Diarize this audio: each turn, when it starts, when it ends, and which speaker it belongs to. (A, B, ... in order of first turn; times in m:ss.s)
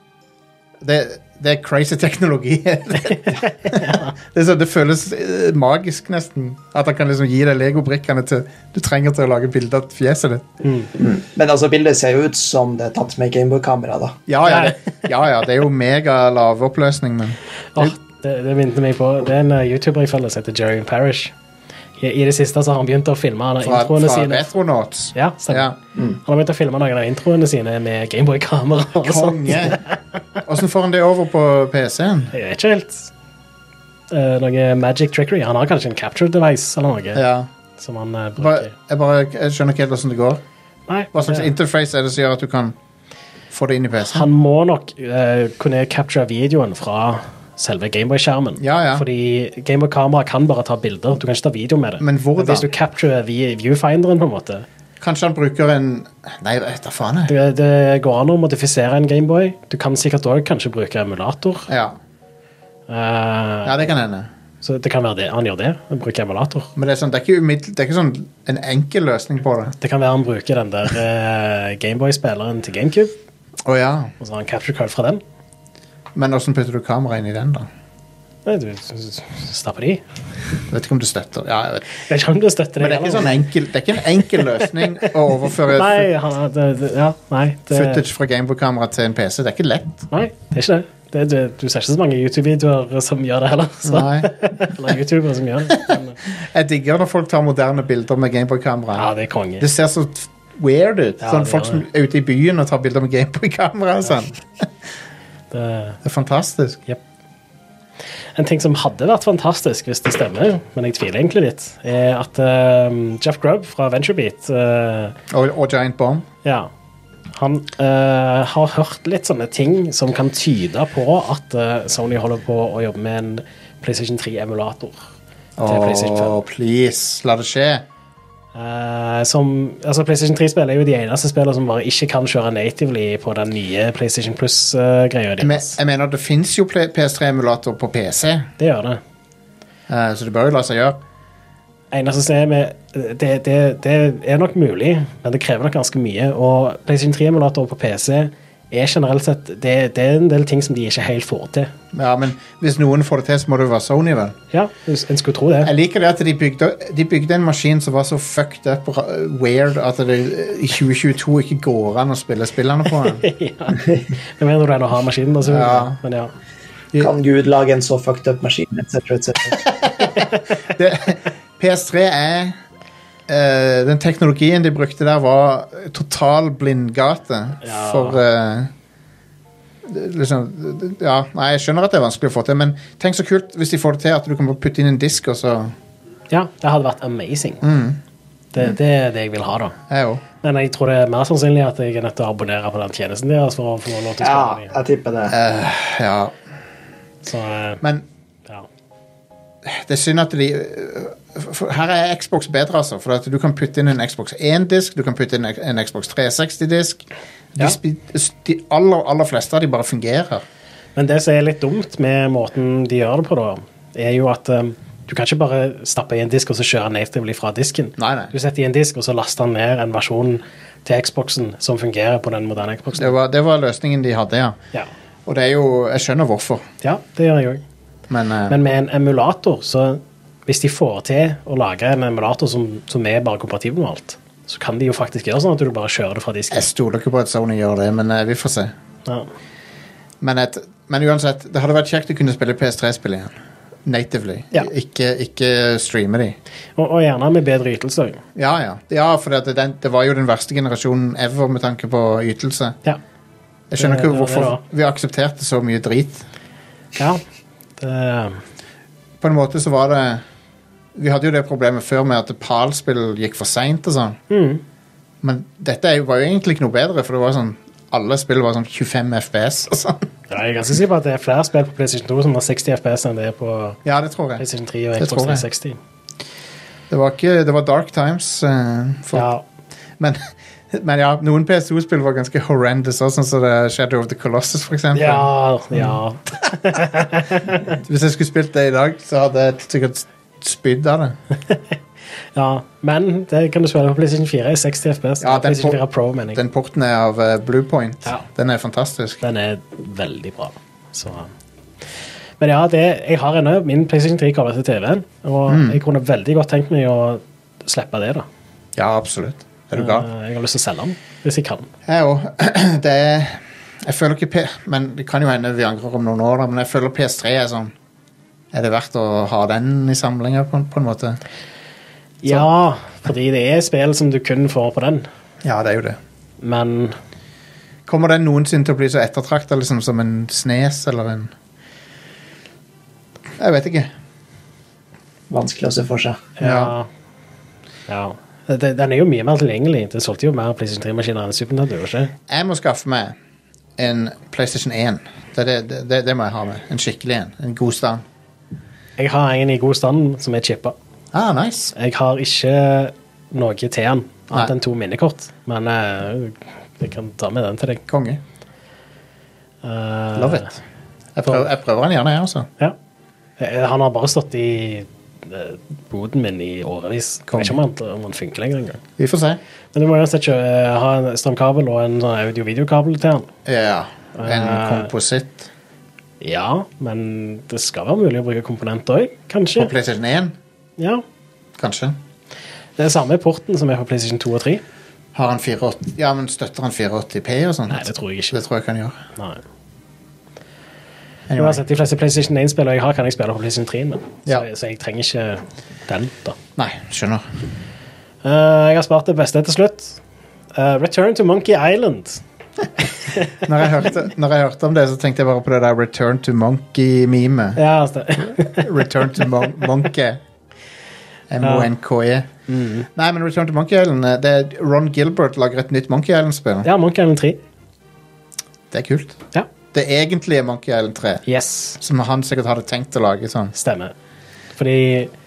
0:00.8-0:10.5 A
0:03.4-0:04.1 B
0:10.6-0:10.9 B
0:11.0-0:14.2 C
0:14.3-0:17.9 A
0:14.4-0:14.7 B
0:17.7-0:21.3 B
0:22.0-0:24.5 B
0:23.6-0:25.8 A
0:25.1-0:30.0 B
0:29.0-0:29.8 A
0:30.4-0:32.3 A
0:32.3-0:33.1 B
0:34.1-0:37.2 B
0:37.1-0:37.5 A
0:37.8-0:38.7 B
0:38.4-0:40.4 A
0:40.9-0:41.5 B
0:41.1-0:42.8 A
0:43.5-0:44.3 A
0:44.0-0:54.6 B
0:48.6-0:49.0 A
0:52.0-0:52.7 A
0:55.0-0:57.3 A
0:57.3-1:01.7 B
1:01.7-1:02.0 A
1:02.9-1:03.8 B
1:03.6-1:04.3 A
1:04.6-1:06.7 B
1:06.8-1:09.8 A
1:09.8-1:13.1 B
1:13.6-1:14.1 A
1:14.2-1:15.2 B
1:16.1-1:17.7 A
1:18.4-1:20.0 B
1:20.7-1:21.9 A
1:22.0-1:23.4 B
1:22.8-1:26.1 A
1:25.7-1:28.0 B
1:27.7-1:30.1 A
1:30.1-1:36.2 B
1:33.8-1:34.3 A
1:35.7-1:44.7 A
1:38.9-1:39.7 B
1:41.2-1:41.8 B
1:45.5-1:46.0 B
1:46.0-1:46.8 A
1:48.4-1:55.2 B
1:55.3-1:56.2 A
1:56.4-1:56.7 B
1:57.3-2:05.0 B
2:05.6-2:07.8 A
2:05.6-2:06.4 B
2:08.5-2:15.8 B
2:15.4-2:18.5 A
2:18.6-2:19.0 B
2:19.9-2:21.0 A
2:21.9-2:31.7 B
2:31.9-2:34.4 A
2:34.5-2:35.7 B
2:35.6-2:43.2 A
2:43.0-2:46.3 B
2:45.4-2:46.0 A
2:47.0-2:49.6 C
2:49.8-2:52.6 A
2:53.3-2:58.7 A
2:57.6-2:58.2 B
2:59.8-3:05.7 A
3:06.3-3:07.6 B
3:07.6-3:08.0 A
3:08.5-3:09.8 B
3:09.9-3:10.2 A
3:10.4-3:14.7 B
3:14.2-3:15.3 C
3:15.3-3:16.3 A
3:17.2-3:17.8 B
3:17.8-3:18.0 A
3:19.6-3:27.0 A
3:27.5-3:30.4 A
3:31.0-3:43.2 B
3:38.0-3:38.3 A
3:42.9-3:44.6 A
3:45.2-3:46.6 A
3:46.8-3:47.6 B
3:48.1-3:48.6 A
3:48.5-3:56.6 B
3:56.5-3:58.7 A
4:00.2-4:03.3 A
4:03.8-4:06.4 A
4:06.8-4:08.2 B
4:08.4-4:12.8 A
4:13.7-4:16.2 A
4:13.8-4:14.6 B
4:17.0-4:17.2 B
4:17.8-4:18.4 B
4:19.2-4:20.2 A
4:20.9-4:24.2 A
4:24.3-4:24.6 B
4:25.2-4:30.0 A
4:30.3-4:33.8 B
4:33.8-4:34.4 A
4:34.4-4:35.8 B
4:35.0-4:35.4 A
4:36.9-4:39.3 A
4:39.1-4:39.4 B
4:40.0-4:46.0 A
4:44.9-4:47.8 B
4:47.7-4:51.2 A
4:52.3-4:56.4 B
4:55.2-4:55.8 A
4:56.3-4:59.2 A
4:59.2-5:01.3 B
5:02.4-5:08.2 B
5:05.5-5:05.8 A
5:08.8-5:10.1 A
5:09.7-5:11.7 B
5:11.8-5:17.7 A
5:18.5-5:21.2 A
5:22.2-5:25.0 B
5:25.4-5:26.0 A
5:26.4-5:26.9 B
5:27.8-5:31.3 A
5:33.4-5:33.9 A
5:35.3-5:36.3 C
5:36.4-5:36.9 B
5:36.4-5:36.7 A
5:37.9-5:42.1 B
5:42.3-5:43.2 A
5:43.8-5:48.0 A
5:49.0-5:50.7 B
5:51.1-5:51.7 A
5:51.7-5:57.8 B
5:54.3-5:54.5 A
5:57.9-5:58.2 A
5:59.6-6:00.5 B
6:00.1-6:00.6 A
6:01.1-6:02.5 A
6:03.4-6:08.8 B
6:07.3-6:07.6 A
6:09.0-6:09.4 A
6:09.7-6:13.3 B
6:13.4-6:15.5 A
6:14.2-6:14.9 B
6:16.2-6:19.7 B
6:19.6-6:20.4 A
6:20.8-6:21.0 B
6:21.6-6:22.0 A
6:22.8-6:24.6 B
6:25.1-6:29.0 A
6:27.7-6:28.4 B
6:29.2-6:29.4 B
6:31.3-6:31.6 A
6:31.4-6:36.4 B
6:36.6-6:37.2 A
6:38.2-6:40.0 B
6:40.5-6:42.2 B
6:43.4-6:47.6 A
6:47.6-6:49.7 B
6:48.3-6:50.2 A
6:51.3-6:52.3 A
6:51.4-6:51.7 B
6:52.5-6:52.9 B
6:52.9-6:56.7 A
6:56.6-6:57.4 B
6:58.7-6:59.2 A
6:59.7-7:01.2 A
7:01.2-7:01.8 B
7:01.8-7:03.5 A
7:03.5-7:03.9 B
7:04.6-7:05.1 B